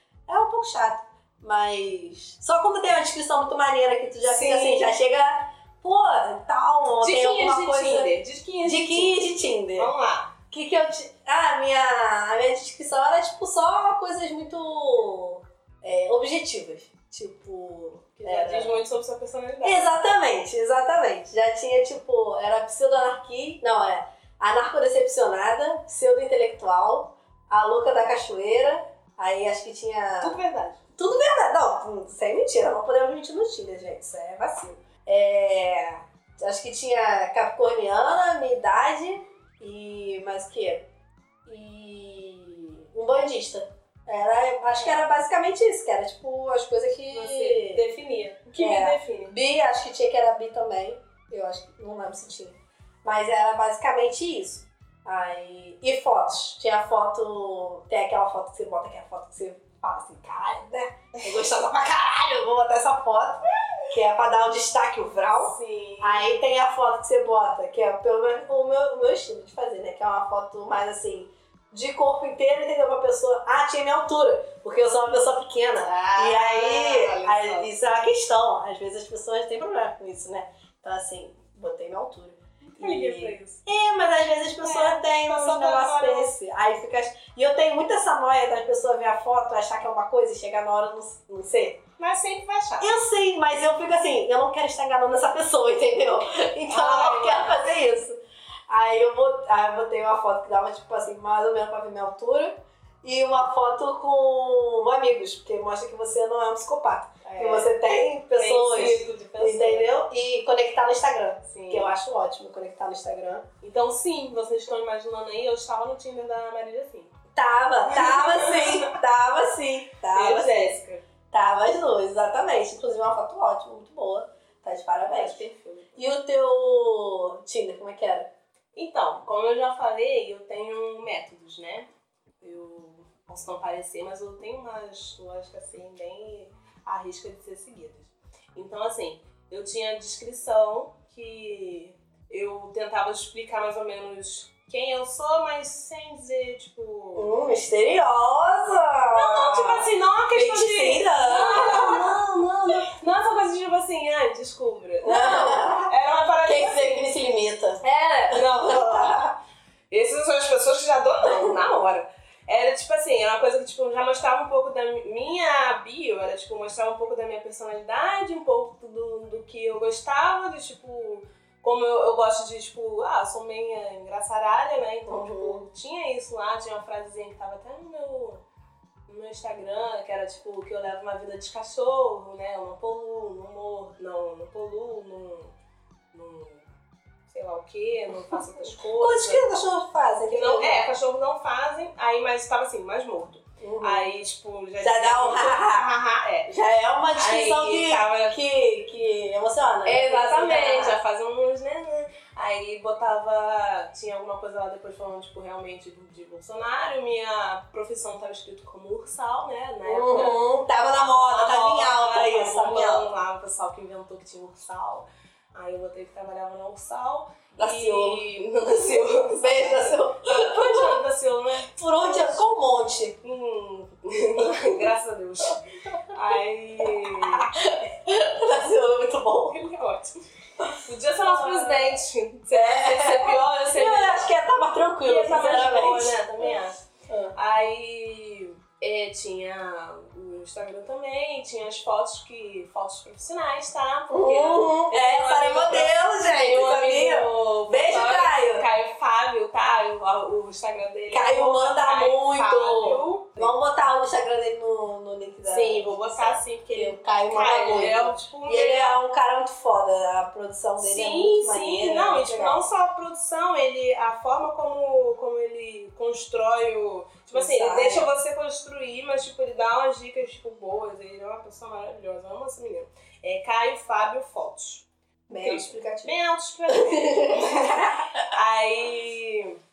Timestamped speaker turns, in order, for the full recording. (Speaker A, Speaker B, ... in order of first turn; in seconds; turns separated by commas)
Speaker A: 0.3-9.9, Speaker B: 4.2-4.9, Speaker B: 7.0-9.2, Speaker B: 9.8-10.3, Speaker A: 10.5-18.8, Speaker B: 18.2-19.9, Speaker A: 19.6-30.4, Speaker B: 30.2-30.8, Speaker A: 31.0-40.9, Speaker A: 41.5-47.9, Speaker B: 44.8-45.1, Speaker B: 47.1-49.4, Speaker A: 48.6-91.8, Speaker B: 65.3-66.3, Speaker B: 75.8-77.7, Speaker B: 82.8-83.6, Speaker B: 84.6-86.3, Speaker B: 92.0-93.0, Speaker A: 92.8-98.2, Speaker B: 96.7-97.6, Speaker A: 98.7-113.5, Speaker B: 107.2-107.8, Speaker B: 108.3-109.9, Speaker B: 111.5-112.0, Speaker B: 113.6-117.1, Speaker A: 117.3-120.8, Speaker B: 117.9-118.9, Speaker B: 120.1-121.0, Speaker A: 121.3-128.3, Speaker B: 125.0-126.1, Speaker B: 128.8-131.9, Speaker B: 132.4-147.3, Speaker A: 147.2-152.2, Speaker B: 149.1-157.1, Speaker A: 155.0-159.4, Speaker B: 157.8-159.2, Speaker B: 159.9-178.4, Speaker A: 175.1-175.7, Speaker B: 179.1-185.5, Speaker B: 186.1-186.7, Speaker B: 187.3-189.5, Speaker A: 188.9-190.9, Speaker B: 190.3-196.5, Speaker A: 193.6-194.1, Speaker A: 194.8-195.9, Speaker A: 196.5-201.0, Speaker B: 197.1-198.4, Speaker B: 199.8-222.5, Speaker A: 209.8-213.1, Speaker A: 217.6-218.3, Speaker A: 219.1-221.0, Speaker A: 221.7-223.2, Speaker B: 223.2-227.5, Speaker A: 226.9-229.6, Speaker B: 229.5-230.2, Speaker A: 230.6-232.0, Speaker B: 230.8-234.3, Speaker A: 232.5-236.6, Speaker B: 235.0-236.8, Speaker A: 237.1-237.4, Speaker B: 237.3-253.6, Speaker A: 244.1-248.7, Speaker A: 251.1-262.6, Speaker B: 255.5-259.0, Speaker B: 260.8-279.6, Speaker A: 267.3-268.1, Speaker A: 275.3-278.2